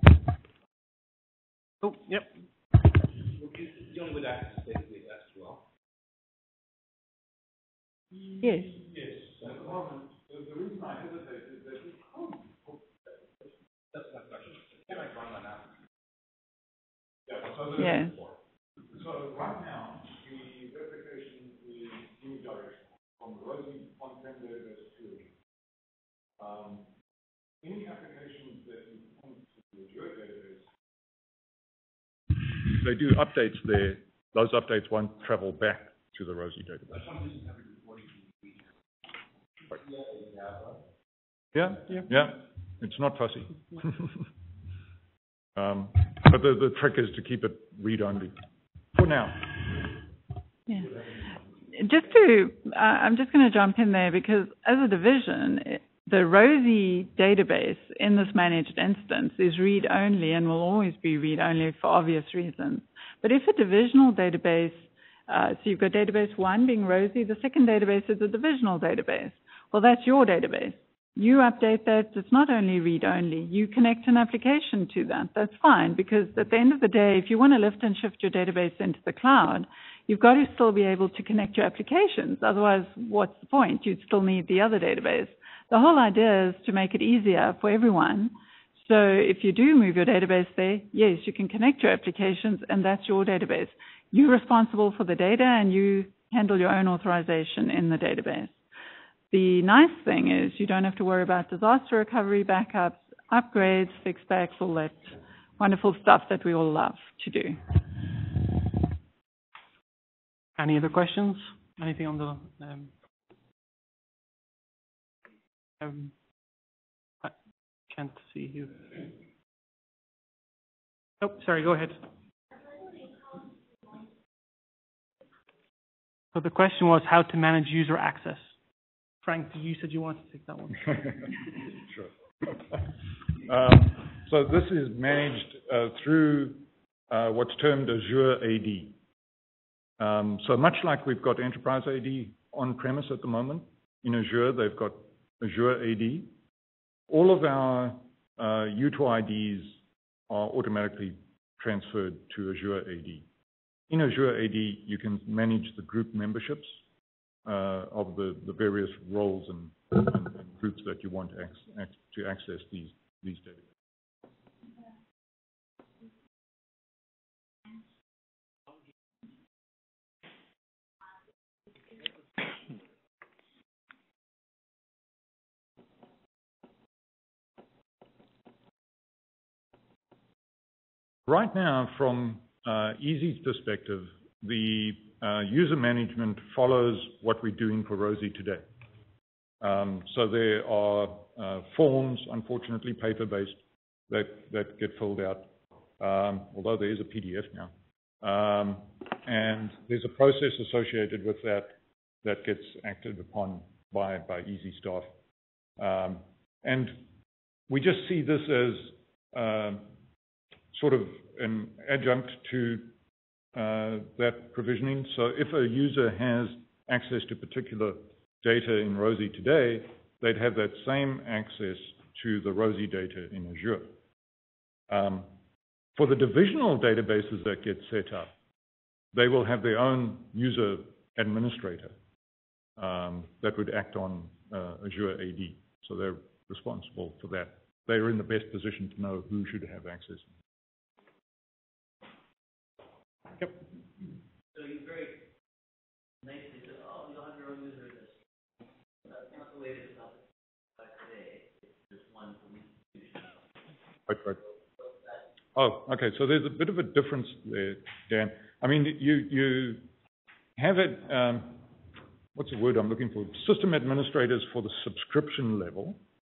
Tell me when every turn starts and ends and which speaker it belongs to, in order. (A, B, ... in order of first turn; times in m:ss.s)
0:01.8-0:02.3 A
0:03.2-0:05.7 B
0:08.4-0:08.8 C
0:08.5-0:12.9 D
0:13.9-0:15.8 B
0:17.3-0:18.4 D
0:17.8-0:18.1 C
0:18.9-0:25.3 D
0:26.4-0:26.9 D
0:27.6-0:30.7 D
0:32.4-0:37.0 D
0:36.9-0:38.7 B
0:39.6-0:40.9 B
0:41.5-0:44.2 D
0:45.6-0:48.4 D
0:49.0-0:49.9 D
0:50.8-0:51.3 D
0:51.7-1:38.6 C
1:39.3-1:47.8 C
1:50.6-1:52.9 A
1:55.8-1:56.1 A
1:57.9-1:59.1 A
2:01.2-2:02.0 A
2:06.3-2:08.6 A
2:09.2-2:11.0 A
2:11.7-2:19.0 D
2:20.0-2:26.3 D
2:27.1-2:29.8 D
2:30.3-2:33.3 D
2:33.9-2:36.8 D
2:37.4-2:43.7 D
3:01.3-3:08.6 D
3:09.6-3:17.7 D
3:18.2-3:25.1 D
3:25.8-3:27.0 D
3:27.7-3:29.9 D
3:30.7-3:32.9 D
3:33.5-3:44.0 D
3:44.9-3:45.3 D
3:46.0-3:48.3 D
3:49.1-3:52.0 D
3:52.8-4:00.3 D
4:04.5-4:05.2 B
4:06.2-4:08.1 B
4:09.1-4:10.2 B
4:10.8-4:13.4 B
4:14.1-4:14.4 D
4:14.4-4:15.3 B
4:15.6-4:19.8 D
4:20.6-4:21.6 D
4:22.4-4:26.0 D